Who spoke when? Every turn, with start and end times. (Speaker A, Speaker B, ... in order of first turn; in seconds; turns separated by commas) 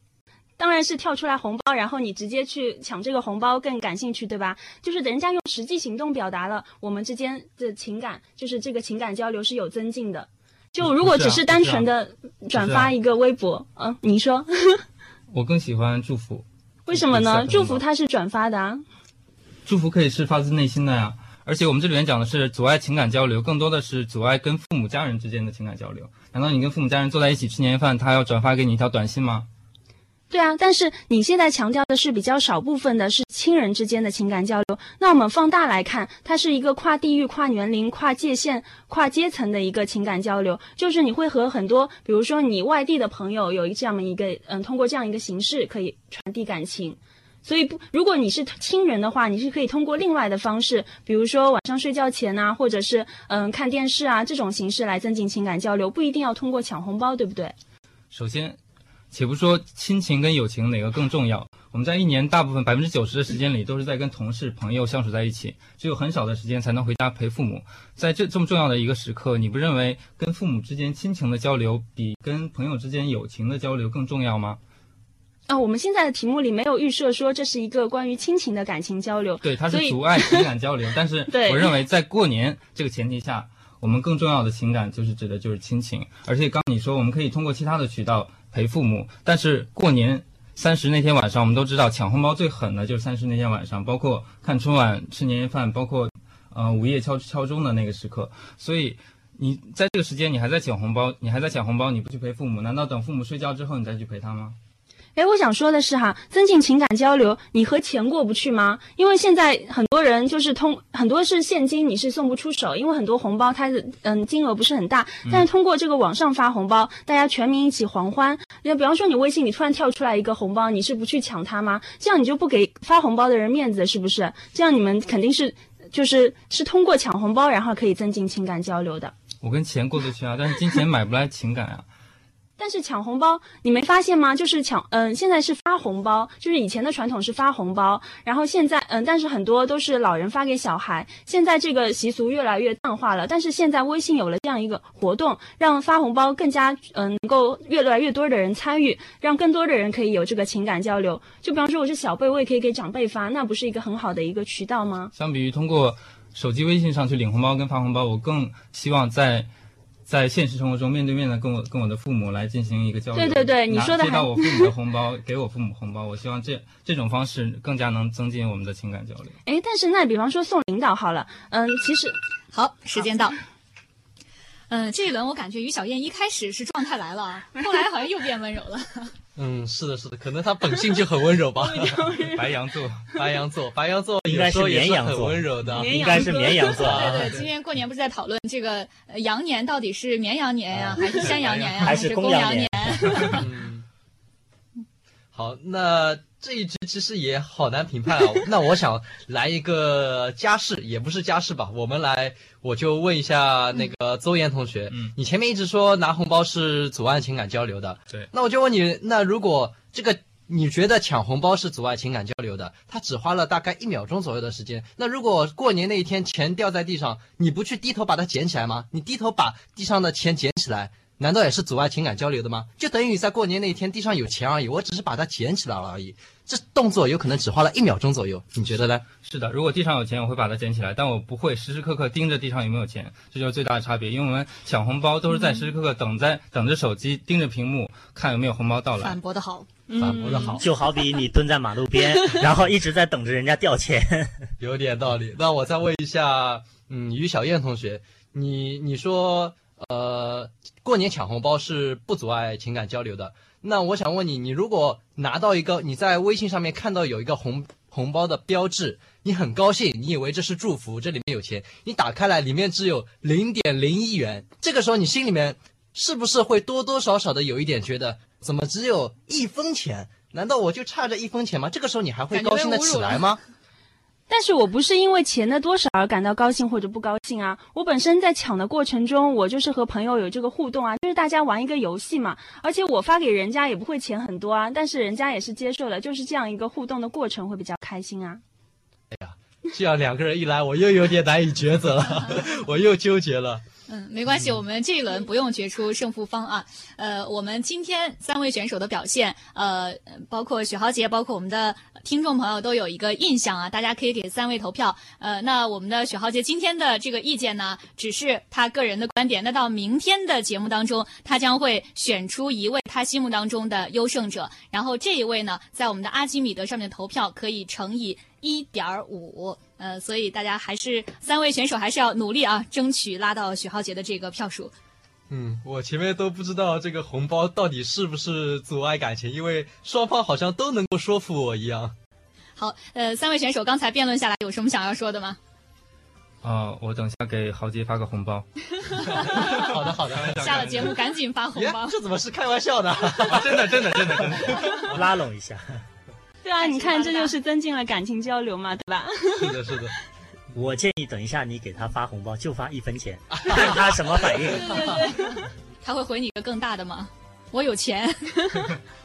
Speaker A: 0.6-14.8, Speaker B: 10.8-11.9, Speaker B: 12.5-12.9, Speaker B: 15.3-17.8, Speaker A: 16.9-18.8, Speaker B: 19.6-29.5, Speaker A: 30.3-57.5, Speaker B: 58.1-58.6, Speaker B: 59.1-74.6, Speaker A: 75.5-80.5, Speaker B: 79.4-104.5, Speaker A: 81.3-81.8, Speaker A: 105.2-129.1, Speaker B: 129.4-131.8, Speaker A: 132.6-155.1, Speaker B: 155.1-159.5, Speaker B: 160.1-169.3, Speaker A: 163.1-164.7, Speaker A: 169.4-172.2, Speaker C: 172.5-173.4, Speaker C: 174.7-179.1, Speaker D: 179.3-182.1, Speaker A: 181.6-182.6, Speaker B: 182.2-183.1, Speaker D: 183.1-187.4, Speaker E: 184.3-187.2, Speaker A: 185.6-186.9, Speaker C: 186.9-193.4, Speaker B: 191.2-191.8, Speaker E: 191.8-193.1, Speaker D: 193.3-193.8, Speaker D: 195.3-229.0, Speaker B: 229.2-239.2, Speaker C: 239.0-239.7, Speaker A: 239.9-240.6, Speaker D: 240.0-240.6, Speaker E: 240.6-244.5, Speaker D: 244.6-273.4, Speaker C: 272.3-273.3, Speaker A: 274.3-288.4, Speaker D: 289.1-293.6, Speaker C: 293.9-324.7, Speaker D: 325.3-331.9, Speaker C: 332.6-335.4, Speaker B: 336.4-341.0, Speaker C: 339.0-339.7, Speaker D: 339.0-340.8, Speaker C: 340.3-342.0, Speaker D: 341.5-344.7, Speaker B: 343.3-344.7, Speaker E: 344.6-345.8, Speaker A: 346.4-349.9, Speaker C: 346.6-347.3, Speaker D: 349.4-349.9, Speaker E: 350.5-354.9, Speaker D: 353.3-353.9, Speaker D: 354.6-355.0, Speaker A: 354.7-355.3, Speaker C: 355.8-358.3